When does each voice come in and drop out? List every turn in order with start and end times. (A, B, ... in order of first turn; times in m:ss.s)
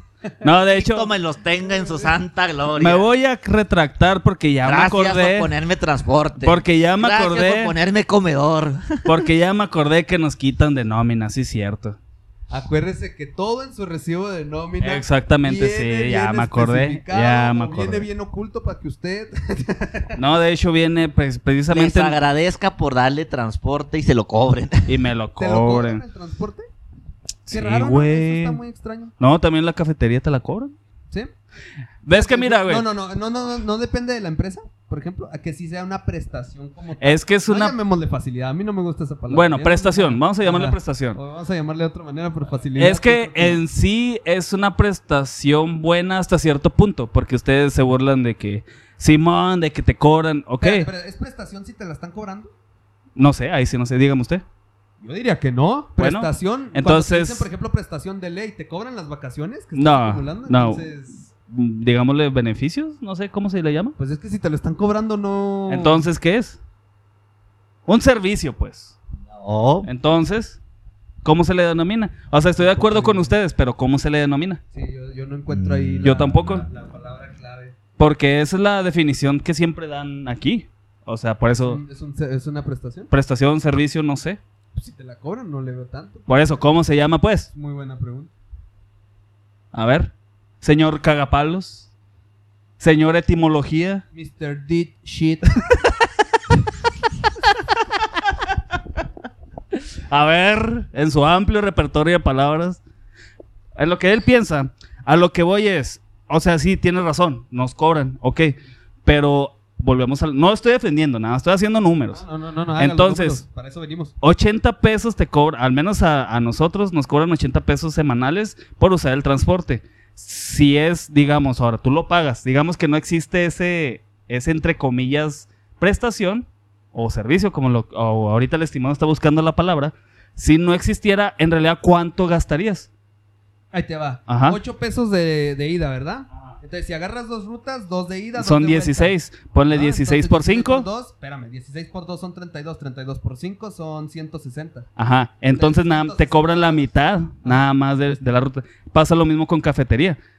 0:00.4-0:01.1 A
0:00.6-0:03.1 B
0:01.6-0:02.1 C
0:02.8-0:05.5 A
0:04.6-0:09.3 B
0:06.4-0:07.7 A
0:09.1-0:12.0 A
0:12.5-0:20.2 C
0:14.8-0:18.1 A
0:20.2-0:22.2 A
0:21.7-0:25.0 B
0:24.9-0:26.0 A
0:25.4-0:26.7 C
0:27.5-0:28.6 A
0:27.5-0:29.1 C
0:29.2-0:30.8 A
0:32.0-0:32.9 A
0:32.1-0:43.6 C
0:37.0-0:37.8 A
0:39.3-0:41.2 A
0:42.8-0:50.9 A
0:50.6-0:52.5 C
0:53.2-0:54.4 A
0:55.0-1:01.3 C
0:56.0-0:57.5 A
0:59.8-1:00.9 A
1:01.5-1:04.0 A
1:04.0-1:06.1 C
1:05.7-1:06.6 A
1:07.9-1:08.9 A
1:09.3-1:09.9 B
1:09.8-1:10.6 A
1:11.2-1:14.6 A
1:12.7-1:13.4 C
1:14.7-1:17.8 C
1:15.5-1:16.4 B
1:16.0-1:16.6 A
1:18.0-1:21.8 A
1:21.6-1:23.1 C
1:23.1-1:24.4 A
1:24.8-1:26.4 C
1:26.3-1:27.5 A
1:27.5-1:28.3 C
1:29.7-1:31.9 A
1:32.8-1:34.0 A
1:34.1-1:35.9 C
1:40.1-1:42.8 A
1:43.8-1:52.2 A
1:52.1-1:54.2 C
1:52.8-1:53.4 A
1:54.2-2:12.9 A
2:13.7-2:19.2 C
2:14.3-2:14.6 A
2:18.4-2:20.9 A
2:19.7-2:24.9 C
2:25.0-2:30.2 A
2:25.5-2:26.9 C
2:27.4-2:28.2 C